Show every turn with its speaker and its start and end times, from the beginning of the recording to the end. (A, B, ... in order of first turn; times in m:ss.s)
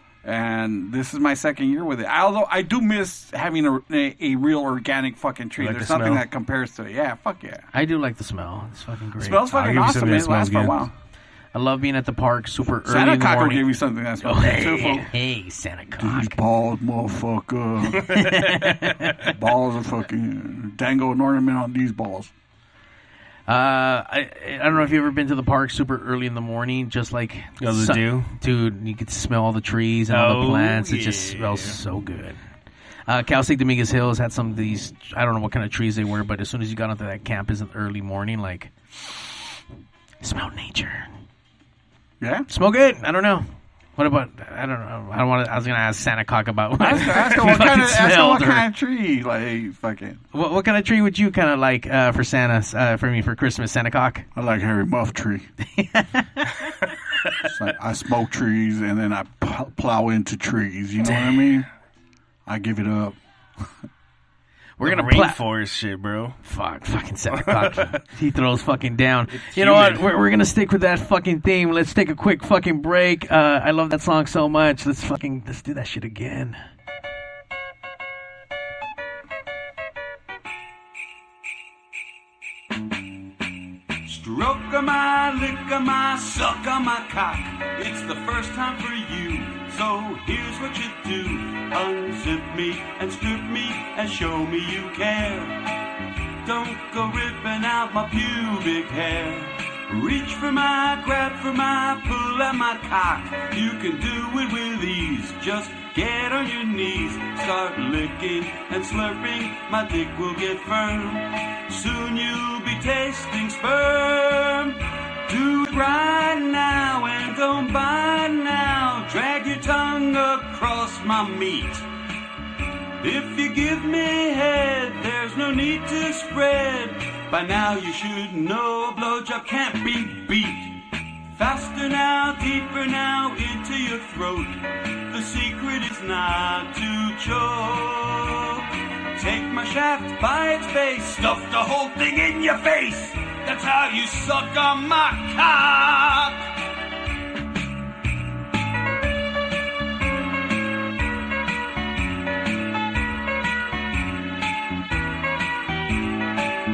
0:00.2-0:07.7 A
0:05.6-0:06.2 B
0:07.7-0:09.9 C
0:09.2-0:10.9 A
0:09.6-0:10.8 B
0:11.5-0:13.7 C
0:12.8-0:15.1 A
0:14.2-0:16.4 C
0:16.0-0:18.1 A
0:18.0-0:18.6 B
0:18.1-0:19.2 C
0:19.2-0:22.3 A
0:23.5-0:32.4 C
0:27.6-0:28.3 B
0:30.1-0:31.8 B
0:33.1-0:38.7 C
0:40.2-0:41.1 C
0:42.2-0:42.5 A
0:42.5-0:43.4 C
0:44.0-0:48.7 C
0:46.8-0:50.2 A
0:50.3-0:54.2 C
0:54.3-0:55.5 A
0:55.6-0:56.5 C
0:57.4-1:01.7 A
1:02.4-1:03.2 A
1:04.8-1:05.4 C
1:04.8-1:06.4 B
1:06.4-1:16.6 C
1:07.3-1:08.0 B
1:09.3-1:10.0 B
1:24.0-1:35.6 D
1:36.4-2:01.9 D
2:03.0-2:26.4 D